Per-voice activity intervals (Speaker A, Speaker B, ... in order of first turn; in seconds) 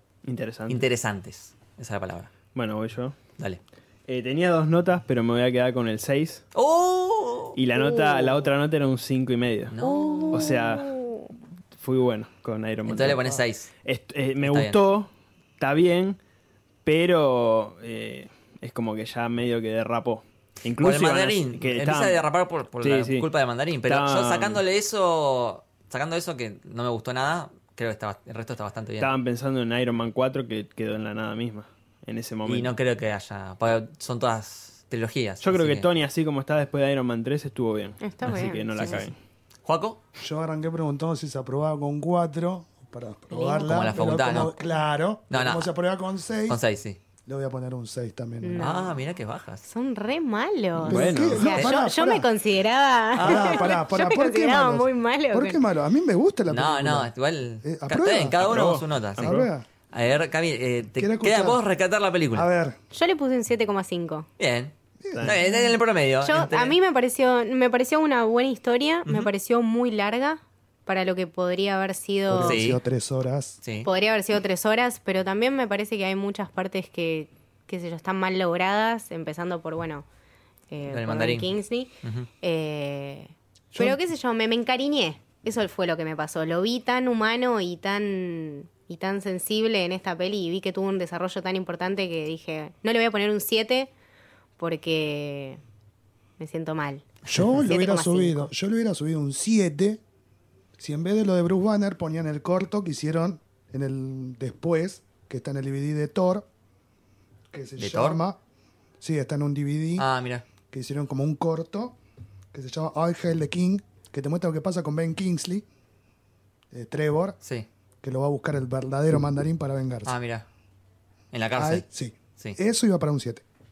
Speaker A: 0.2-0.8, 2.5-3.1, 4.1-6.4, 7.5-9.7, 10.3-10.9, 11.7-16.2, 16.8-22.2, 22.8-23.3, 23.9-24.6, 29.0-32.7, 35.4-39.2, 50.8-51.4, 58.4-59.5, 65.1-65.4
Speaker B: 0.7-2.3, 6.5-8.4, 9.7-10.7, 12.8-13.7, 14.4-14.8, 20.8-29.1, 32.4-35.9, 38.3-39.1, 39.6-40.0, 43.6-44.5, 45.3-45.7, 46.5-47.0, 48.6-49.6, 51.3-51.7, 53.2-53.7, 56.5-62.5, 64.4-66.7, 72.4-72.8, 73.6-73.9, 80.9-82.3, 107.8-108.2, 110.0-110.4, 117.4-117.7, 120.0-120.5, 121.3-121.8
Speaker C: 9.8-11.3, 38.0-39.1, 43.3-44.5, 48.4-49.0, 49.6-55.6, 62.9-64.3, 66.2-72.6, 73.8-80.0, 80.7-93.9, 94.6-95.6, 96.4-98.5
Speaker D: 40.2-46.6, 47.2-48.7, 50.8-52.3, 53.1-57.1, 57.6-58.4, 59.2-59.6, 60.9-61.6, 62.3-62.8, 65.0-65.4, 72.3-73.6, 83.7-84.0, 97.2-100.0, 100.8-106.5, 107.5-108.4, 109.0-110.1, 110.7-112.0, 112.5-115.7, 116.7-117.4, 118.0-120.1, 121.5-123.4